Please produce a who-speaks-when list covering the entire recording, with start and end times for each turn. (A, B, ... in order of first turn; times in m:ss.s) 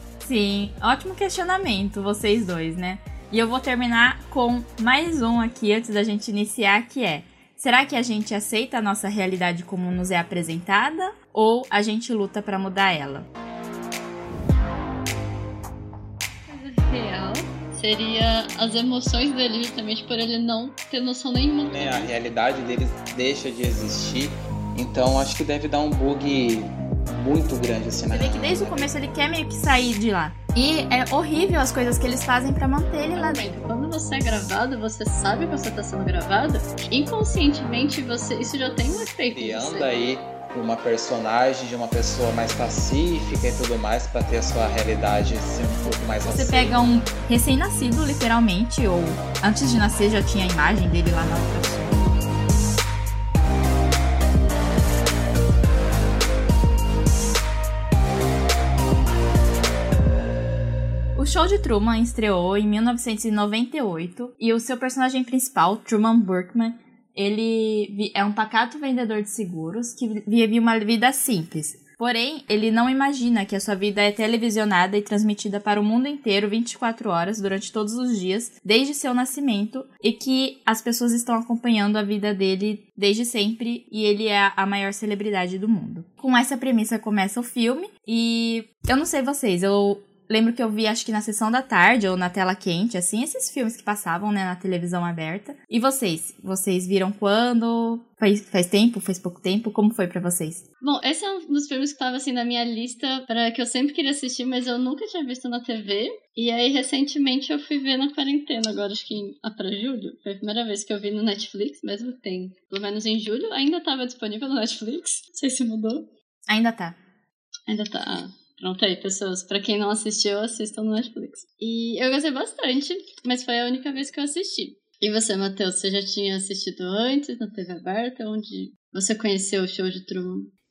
0:00.2-0:13.3 A
0:16.5-0:22.1 B
0:21.7-0:29.0 C
0:28.1-0:33.6 A
0:33.1-0:39.9 B
0:39.3-0:46.9 C
0:46.3-0:52.1 A
1:01.2-1:40.6 A
1:40.8-1:56.1 B
1:56.5-1:57.0 A
1:57.7-2:10.5 B